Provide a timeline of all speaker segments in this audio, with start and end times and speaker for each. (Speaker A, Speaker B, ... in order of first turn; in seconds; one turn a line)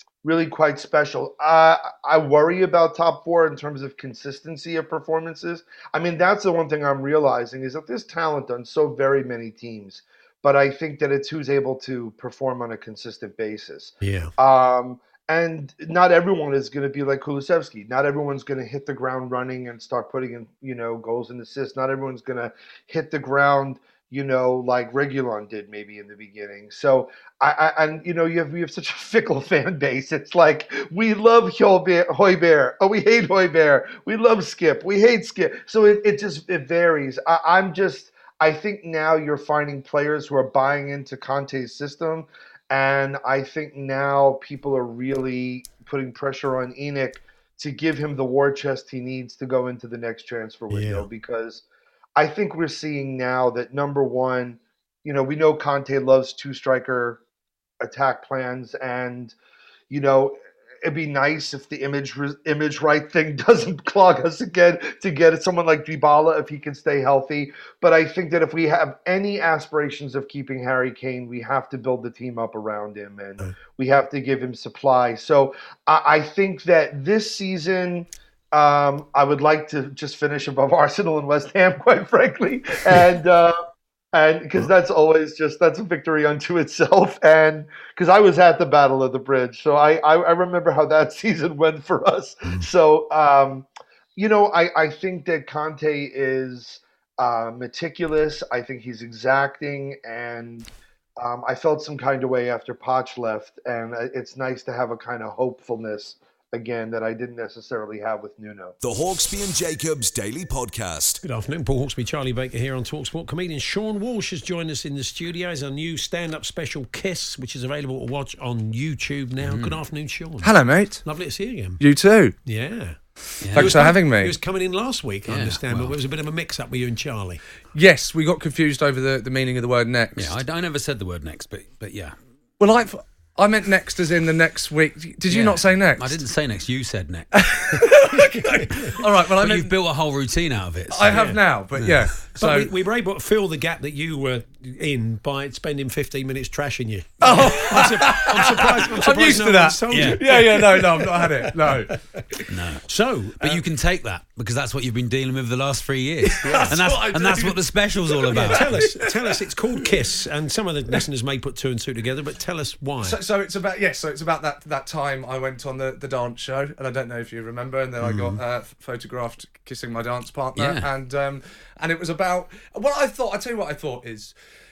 Speaker A: 0.2-51.6
Speaker B: 14.0-14.3
Speaker B: 50.7-51.1
Speaker A: 52.2-57.2
Speaker A: 57.8-59.4
Speaker A: 59.9-83.6
Speaker A: 84.1-100.7
Speaker A: 101.2-108.8
Speaker C: 108.8-111.2
Speaker B: 111.2-121.8
Speaker D: 119.4-119.8
Speaker E: 120.4-121.0
Speaker E: 121.8-122.3
Speaker B: 122.5-123.0
Speaker D: 123.4-123.9
Speaker E: 123.5-124.4
Speaker B: 123.5-127.4
Speaker D: 125.3-126.0
Speaker E: 127.7-130.4
Speaker D: 130.2-132.1
Speaker E: 132.6-136.2
Speaker D: 135.3-137.3
Speaker E: 137.3-139.8
Speaker B: 138.2-138.9
Speaker D: 139.4-142.1
Speaker E: 140.9-142.7
Speaker B: 141.1-141.4
Speaker B: 142.2-151.9
Speaker E: 147.2-151.9
Speaker D: 149.9-150.2
Speaker D: 152.5-152.8
Speaker B: 152.9-153.6
Speaker D: 153.4-158.9
Speaker E: 156.3-159.4
Speaker B: 156.4-156.7
Speaker B: 158.3-163.2
Speaker E: 163.0-174.3
Speaker D: 168.0-168.4
Speaker D: 170.6-170.9